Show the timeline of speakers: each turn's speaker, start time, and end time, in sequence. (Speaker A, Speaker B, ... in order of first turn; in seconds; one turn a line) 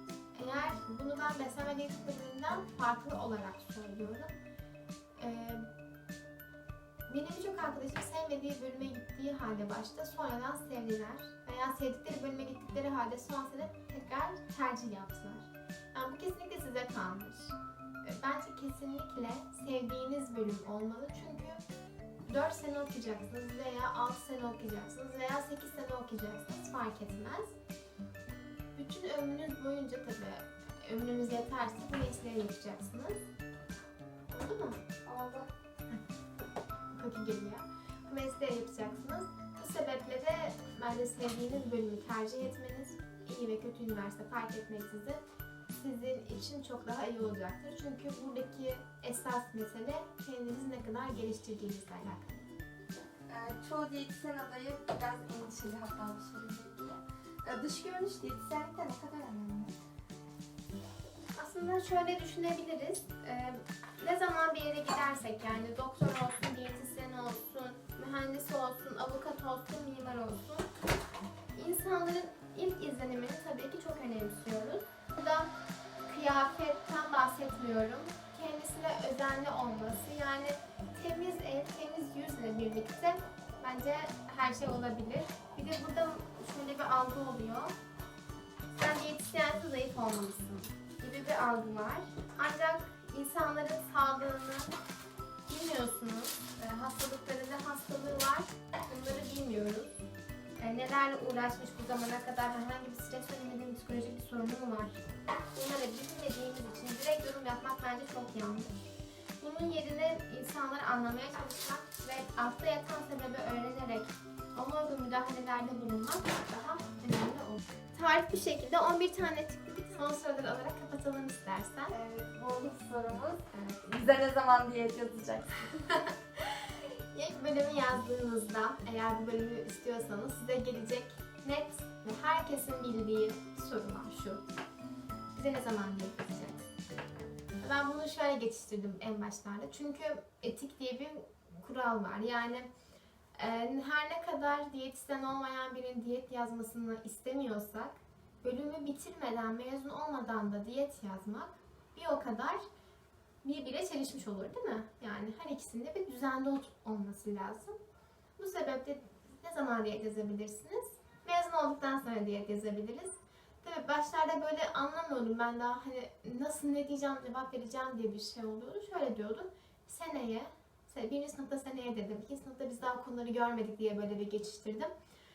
Speaker A: 0.3-4.3
Speaker A: 5.2-5.7
Speaker A: 7.1-21.6
Speaker A: 22.3-27.5
Speaker A: 28.7-33.2
Speaker A: 34.3-34.9
Speaker B: 35.0-35.5
Speaker A: 36.9-52.5
Speaker B: 52.9-59.7
Speaker A: 61.4-70.7
Speaker A: 71.5-75.5
Speaker A: 76.1-87.7
Speaker A: 88.7-94.8
Speaker A: 95.5-99.9
Speaker A: 100.6-105.0
Speaker A: 105.5-108.7
Speaker A: 109.4-121.9
Speaker B: 121.9-125.9
Speaker A: 125.9-134.4
Speaker A: 135.3-136.6
Speaker A: 137.6-142.7
Speaker A: 143.4-152.6
Speaker A: 153.4-157.7
Speaker A: 158.4-174.9